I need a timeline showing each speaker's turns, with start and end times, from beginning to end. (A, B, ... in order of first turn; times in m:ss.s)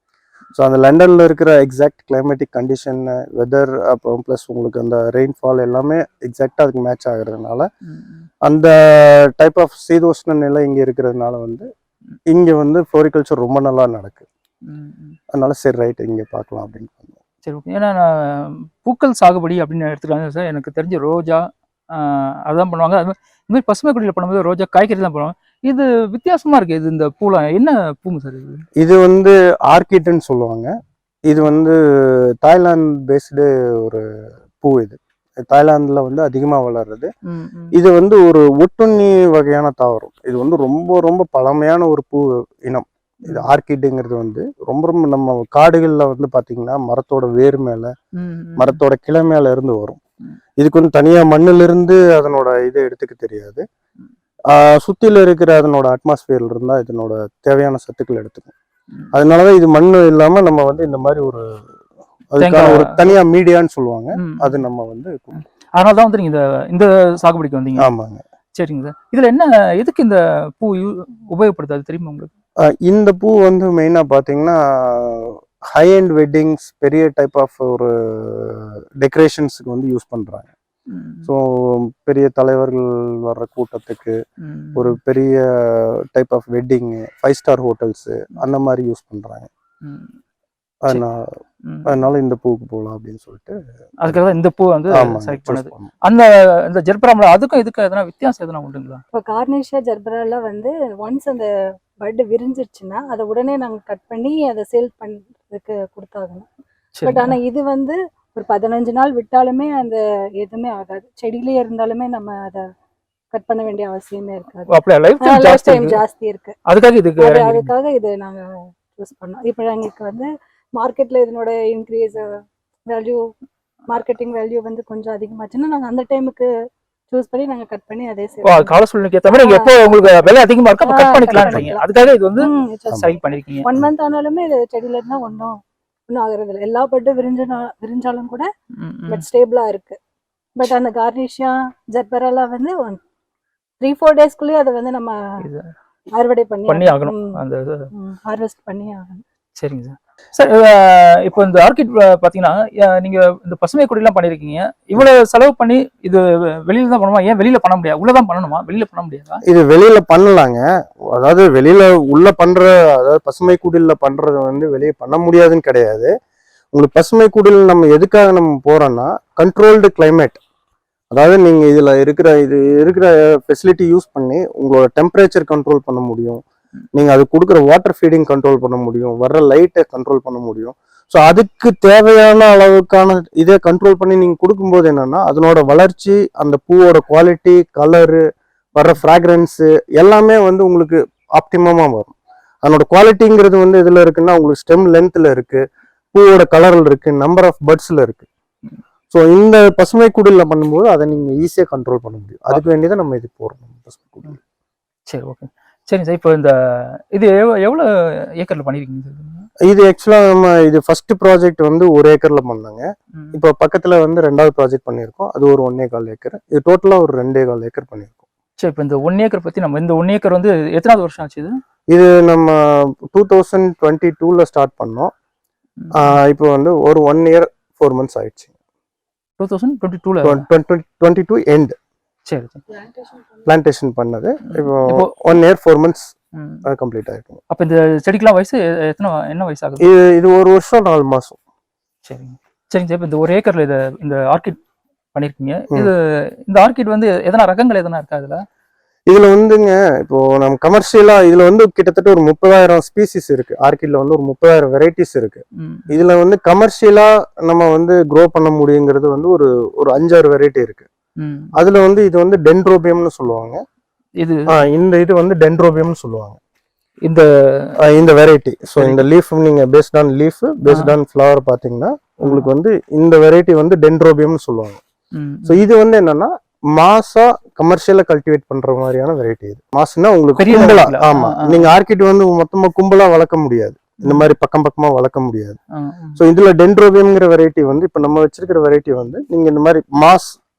0:00.6-0:07.7 A
0:07.8-0:08.3 B
0:08.4-0:11.7 A
0:12.3-0:14.2 A
0:14.6-0:15.2 B
0:15.3-0:17.2 A
0:17.4-0:28.6 B
0:28.8-0:30.7 A
0:31.3-0:34.0 A
0:34.6-0:37.1 A
0:37.2-0:37.8 B
0:37.7-0:47.9 A
0:48.2-0:48.8 B
0:48.6-0:50.0 A
0:50.6-0:53.6 A
0:54.5-0:58.5 A
0:59.1-1:01.6 A
1:02.3-1:05.4 A
1:02.4-1:03.0 B
1:04.2-1:04.6 B
1:05.8-1:07.9 B
1:07.8-1:08.2 A
1:08.6-1:12.3 B
1:12.6-1:20.5 A
1:20.9-1:21.3 B
1:21.2-1:24.2 A
1:24.4-1:24.9 B
1:24.8-1:29.5 A
1:29.8-1:30.1 B
1:30.8-1:31.3 A
1:31.6-1:32.0 B
1:31.9-1:34.2 A
1:34.0-1:39.0 B
1:34.9-1:35.9 A
1:39.1-1:41.5 C
1:42.0-1:46.5 C
1:47.0-1:47.4 B
1:47.1-1:52.7 C
1:53.3-1:56.6 C
1:54.7-1:56.0 B
1:56.7-1:57.7 B
1:57.2-2:03.3 C
2:03.9-2:06.5 C
2:07.1-2:08.8 C
2:08.4-2:13.7 B
2:09.4-2:09.8 C
2:10.8-2:11.8 C
2:11.4-2:11.7 A
2:12.4-2:18.5 C
2:18.8-2:19.2 B
2:19.1-2:20.0 C
2:20.6-2:23.0 C
2:23.8-2:25.4 C
2:25.4-2:25.7 B
2:26.1-2:27.4 C
2:26.7-2:27.9 B
2:27.9-2:29.2 C
2:29.6-2:39.4 B
2:39.4-2:46.1 A
2:46.7-2:50.4 A
2:51.1-2:56.4 A
2:56.9-3:08.2 A
3:08.8-3:12.1 A
3:12.6-3:18.3 A
3:19.1-3:24.4 A
3:25.1-3:29.5 B
3:29.7-3:38.2 A
3:38.6-3:41.6 B
3:41.9-3:45.1 A
3:45.8-3:46.2 B
3:45.9-3:48.5 A
3:49.4-3:50.4 B
3:50.2-3:51.8 A
3:52.3-3:52.6 B
3:52.8-3:53.2 C
3:53.4-3:56.1 A
3:54.4-3:55.1 B
3:56.4-3:56.6 B
3:56.6-3:57.4 A
3:57.5-3:59.8 B
3:59.8-4:01.4 A
4:02.1-4:04.6 B
4:05.1-4:08.4 B
4:09.1-4:20.9 A
4:15.6-4:15.9 B
4:21.2-4:21.5 B
4:21.6-4:23.6 A
4:24.2-4:24.5 B
4:24.5-4:26.4 A
4:27.0-4:27.8 B
4:27.8-4:34.8 A
4:28.8-4:29.0 B
4:30.7-4:30.9 B
4:35.1-4:35.6 B
4:35.4-4:45.6 A
4:40.4-4:41.7 B
4:44.0-4:44.3 B
4:45.7-4:46.2 B
4:46.2-4:50.4 A